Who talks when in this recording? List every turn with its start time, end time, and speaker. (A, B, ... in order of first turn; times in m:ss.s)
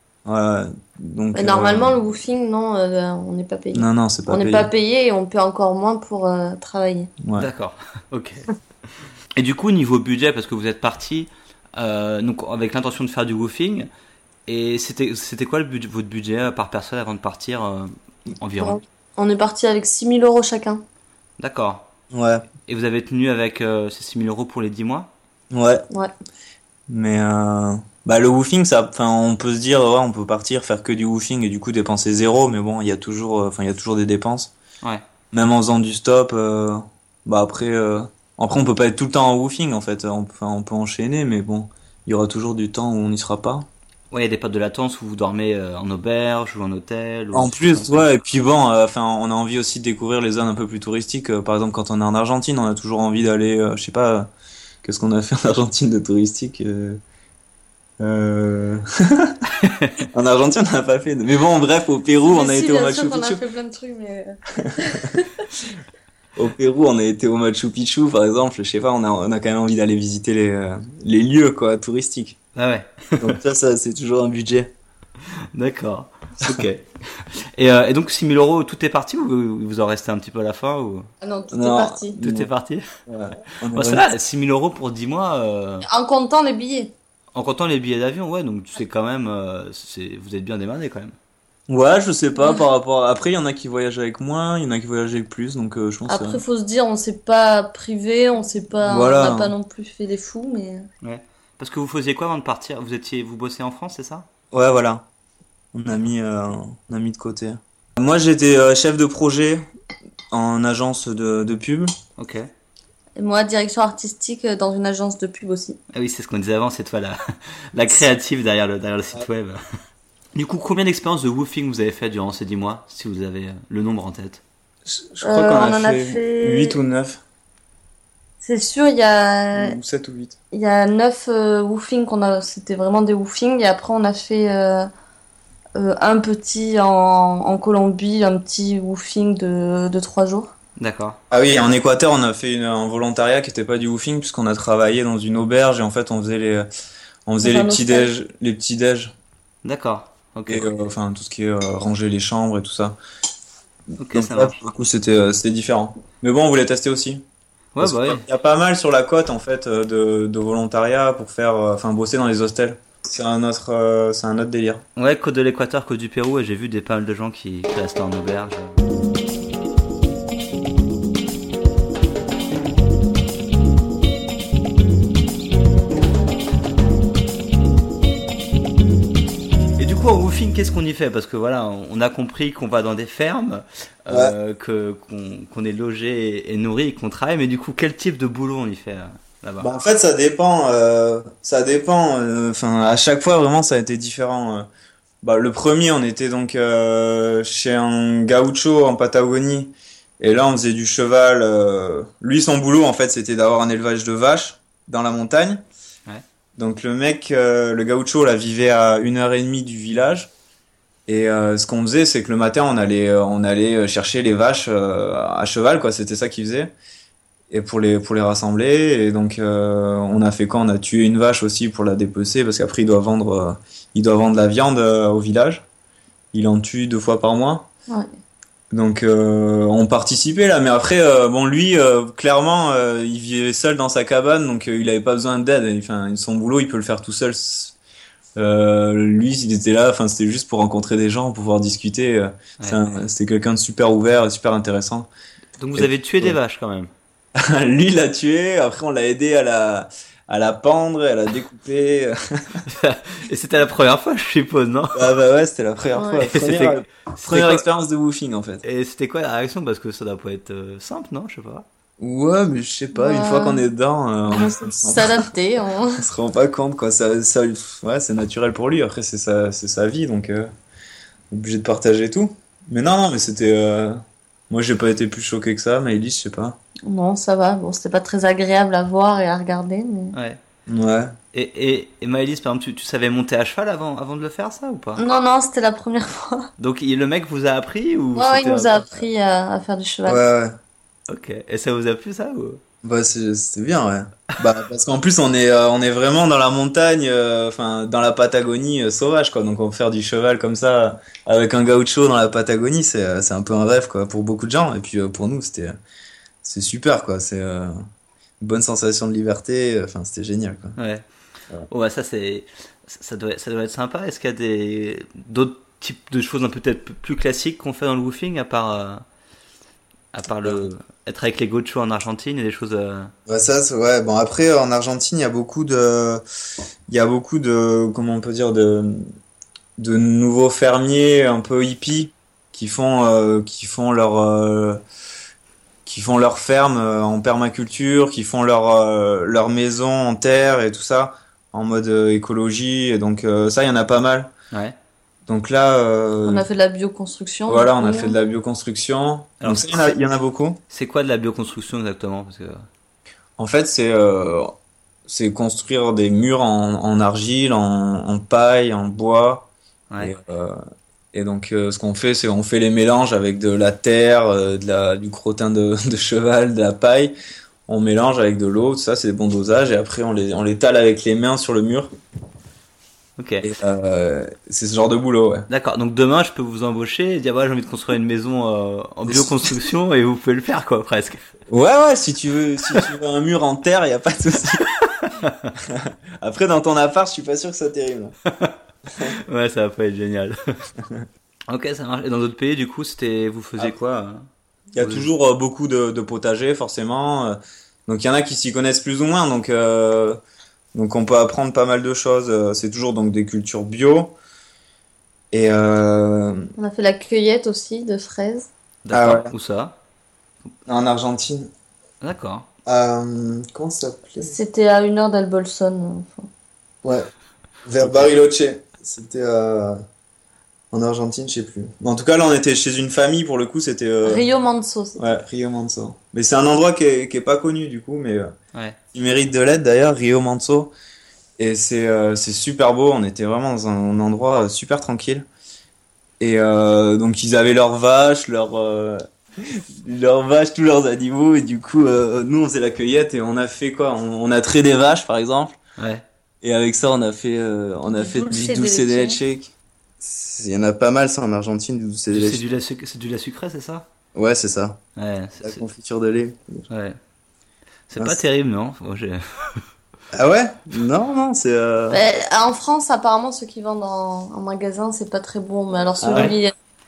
0:00.2-0:02.0 A
0:01.3-0:07.1 B
0:03.7-0:04.7 A
0:07.2-0:07.5 A
0:07.4-0:08.4 C
0:09.4-0:13.9 C
0:14.5-0:18.8 C
0:18.6-0:20.8 B
0:21.4-0:21.9 C
0:22.1-0:22.4 A
0:22.6-0:25.1 C
0:25.5-0:25.8 A
0:26.9-0:34.5 A
0:35.3-0:43.7 A
0:44.1-0:48.0 C
0:47.3-0:54.3 A
0:54.8-0:57.0 A
0:58.0-0:59.4 A
1:00.1-1:03.4 A
1:02.3-1:05.4 B
1:04.6-1:05.2 A
1:06.4-1:12.4 A
1:12.5-1:13.4 C
1:13.2-1:14.7 A
1:15.5-1:21.1 C
1:21.2-1:22.2 B
1:21.5-1:22.5 A
1:22.2-1:22.8 C
1:23.0-1:24.1 A
1:23.7-1:25.8 C
1:25.8-1:26.9 B
1:27.3-1:31.1 C
1:31.7-1:36.4 A
1:36.1-1:40.8 B
1:38.8-1:39.5 A
1:41.0-1:44.2 C
1:44.5-1:45.0 A
1:45.7-1:49.6 A
1:50.3-1:51.9 A
1:52.2-1:52.5 C
1:53.2-1:55.8 B
1:55.9-1:57.2 C
1:57.7-1:59.6 C
2:00.3-2:04.4 C
2:04.9-2:07.2 A
2:05.2-2:06.7 B
2:08.4-2:09.8 B
2:09.5-2:10.3 A
2:10.5-2:14.9 B
2:15.8-2:20.5 B
2:20.8-2:21.2 C
2:21.3-2:26.7 A
2:27.3-2:29.1 A
2:27.4-2:28.1 B
2:29.6-2:30.7 C
2:30.5-2:33.0 A
2:34.0-2:34.5 C
2:34.1-2:37.2 A
2:37.8-2:38.2 C
2:37.8-2:44.8 A
2:45.0-2:48.8 C
2:59.8-3:09.7 C
3:04.1-3:04.3 A
3:09.6-3:14.7 A
3:15.2-3:25.6 A
3:26.6-3:30.3 A
3:31.1-3:36.7 A
3:37.5-3:45.6 A
3:46.3-3:47.7 A
3:48.7-3:57.8 A
3:58.4-4:05.1 A
4:05.6-4:06.9 C
4:05.8-4:06.4 A
4:07.4-4:12.6 A
4:12.7-4:15.0 C
4:14.9-4:18.6 A
4:15.9-4:16.2 B
4:16.2-4:17.6 C
4:18.6-4:21.6 C
4:22.0-4:25.3 A
4:22.9-4:23.6 B
4:24.3-4:26.0 B
4:26.0-4:30.5 A
4:31.3-4:36.6 A
4:36.8-4:40.2 B
4:40.1-4:40.4 C
4:40.7-4:41.1 A
4:41.3-4:45.0 C
4:45.0-4:46.5 B
4:46.6-4:49.0 C
4:48.1-4:50.2 B
4:50.0-4:50.6 A
4:51.1-4:52.6 C
4:52.8-5:05.8 A
5:06.4-5:07.8 A
5:08.4-5:10.8 A
5:10.8-5:11.0 C
5:11.7-5:19.0 C
5:20.1-5:23.1 C
5:23.3-5:26.2 A
5:26.9-5:29.0 A
5:29.8-5:34.8 A
5:35.8-5:44.3 A
5:44.5-5:44.8 C
5:45.3-5:46.4 A
5:46.2-5:48.2 B
5:47.5-5:50.6 A
5:49.4-5:49.9 C
5:50.7-5:52.6 C
5:53.4-5:54.5 A
5:55.1-6:00.6 A
5:59.9-6:00.1 C
6:01.1-6:07.1 A
6:07.7-6:11.9 A
6:13.2-6:13.5 C
6:13.4-6:15.5 A
6:15.5-6:21.2 C
6:19.1-6:19.4 A
6:21.5-6:24.7 A
6:24.8-6:25.5 C
6:25.6-6:28.1 A
6:28.3-6:28.6 C
6:29.2-6:30.4 C
6:31.5-6:34.3 C
6:34.7-6:40.2 A
6:34.8-6:35.1 C
6:40.7-6:44.1 A
6:45.3-6:46.5 A
6:46.6-6:48.5 B
6:48.8-6:49.8 C
6:48.9-6:49.3 A
6:50.6-6:51.5 A
6:52.0-6:52.5 C
6:52.6-6:54.4 A
6:54.2-6:56.3 B
6:57.6-6:59.8 A
6:57.8-6:58.1 C
7:00.7-7:04.2 A
7:04.0-7:05.0 B
7:05.0-7:08.3 A
7:08.9-7:10.7 A
7:11.4-7:15.2 A
7:16.2-7:25.6 A
7:25.8-7:26.0 C
7:26.4-7:32.4 A
7:27.9-7:29.2 B
7:32.1-7:33.8 C
7:34.1-7:34.8 A
7:35.0-7:35.6 C
7:35.4-7:36.7 A
7:36.7-7:37.0 C
7:37.9-7:39.6 C
7:40.1-7:42.0 A
7:41.9-7:46.5 B
7:46.0-7:46.4 A